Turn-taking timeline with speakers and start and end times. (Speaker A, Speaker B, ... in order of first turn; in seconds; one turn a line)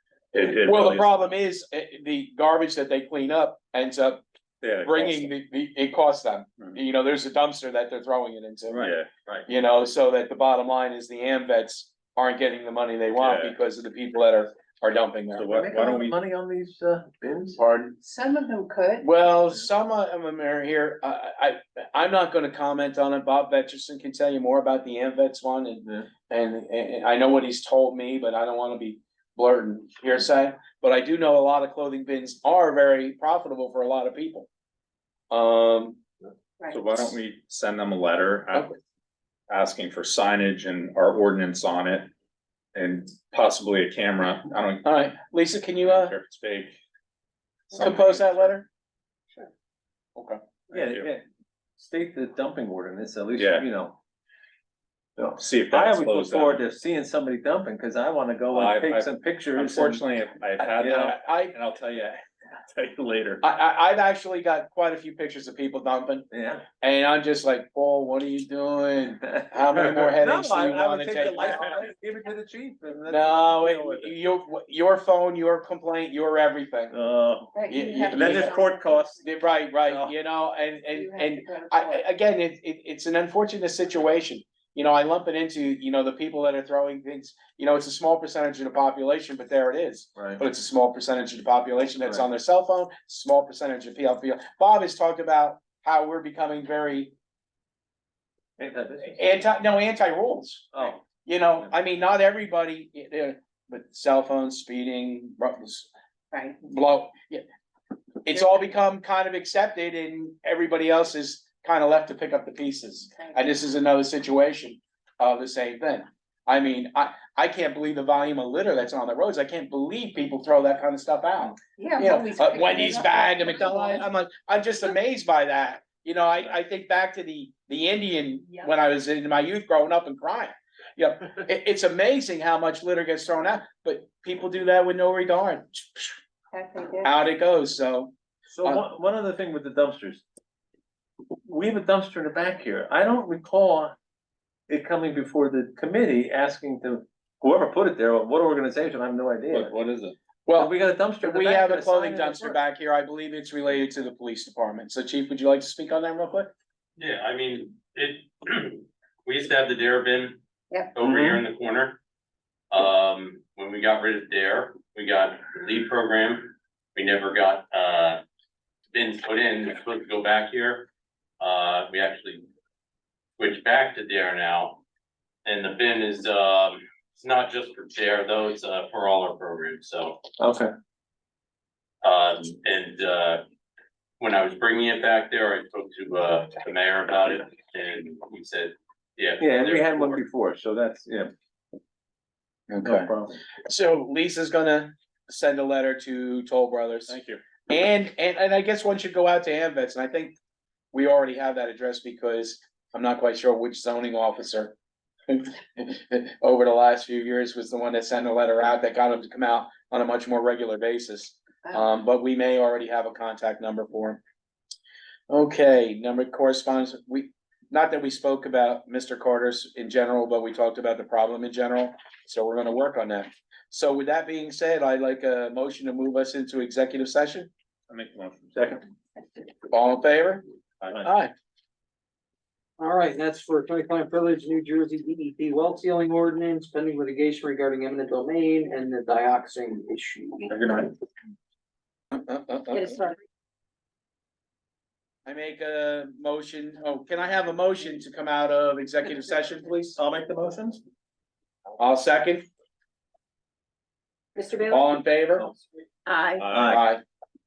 Speaker A: 0.3-1.1
Speaker B: 0.6-4.2
Speaker A: 4.6-5.3
Speaker B: 4.8-8.9
Speaker A: 8.7-9.1
Speaker B: 9.5-15.5
Speaker A: 13.2-13.6
Speaker A: 15.3-16.2
Speaker C: 15.5-17.6
Speaker B: 17.6-18.0
Speaker D: 18.0-19.1
Speaker B: 19.0-34.5
Speaker B: 35.3-36.0
Speaker A: 36.7-38.7
Speaker A: 39.5-42.1
Speaker A: 42.8-45.0
Speaker B: 44.8-46.1
Speaker A: 45.8-46.8
Speaker A: 47.7-48.5
Speaker B: 47.8-48.7
Speaker A: 50.7-51.1
Speaker C: 50.7-51.2
Speaker C: 51.8-54.0
Speaker A: 53.4-53.7
Speaker C: 55.2-60.0
Speaker A: 55.4-56.6
Speaker A: 58.5-63.4
Speaker C: 60.8-61.1
Speaker B: 61.0-61.5
Speaker B: 63.4-66.2
Speaker C: 66.3-66.6
Speaker B: 66.8-71.8
Speaker C: 69.7-74.2
Speaker A: 71.2-71.8
Speaker B: 73.1-77.0
Speaker C: 76.9-79.2
Speaker D: 77.5-79.1
Speaker B: 77.7-78.6
Speaker B: 79.2-97.1
Speaker C: 79.9-80.1
Speaker D: 80.9-82.0
Speaker C: 90.2-90.4
Speaker C: 98.6-99.2
Speaker B: 99.1-105.9
Speaker C: 100.7-101.0
Speaker D: 106.3-106.6
Speaker B: 106.6-107.4
Speaker B: 108.2-136.2
Speaker D: 113.1-113.5
Speaker D: 121.8-124.1
Speaker D: 136.5-137.1
Speaker B: 137.0-138.8
Speaker C: 138.5-140.2
Speaker C: 141.5-143.9
Speaker C: 144.7-149.7
Speaker A: 149.5-150.1
Speaker B: 150.4-156.5
Speaker C: 150.5-152.6
Speaker E: 157.0-160.4
Speaker D: 160.7-160.9
Speaker E: 160.9-162.0
Speaker E: 162.7-168.2
Speaker E: 168.9-170.9
Speaker E: 171.4-172.4
Speaker E: 173.4-174.8
Speaker E: 175.4-180.2
Speaker C: 180.4-180.7
Speaker E: 182.0-183.4
Speaker E: 184.2-190.2
Speaker C: 189.4-191.3
Speaker B: 192.7-193.1
Speaker C: 192.8-193.3
Speaker B: 193.6-197.2
Speaker A: 197.1-197.4
Speaker B: 197.7-200.3
Speaker B: 200.9-204.7
Speaker B: 205.3-214.2
Speaker B: 215.3-227.5
Speaker A: 227.9-228.6
Speaker C: 228.5-228.8
Speaker B: 229.7-230.4
Speaker B: 231.0-231.3
Speaker F: 232.8-240.5
Speaker A: 240.5-240.9
Speaker B: 242.2-242.9
Speaker D: 242.7-243.2
Speaker B: 245.2-250.0
Speaker C: 250.0-250.8
Speaker B: 251.8-252.4
Speaker D: 254.3-254.8
Speaker B: 254.6-255.5
Speaker D: 256.1-256.5
Speaker A: 256.4-256.8
Speaker C: 256.5-256.8
Speaker B: 256.5-257.0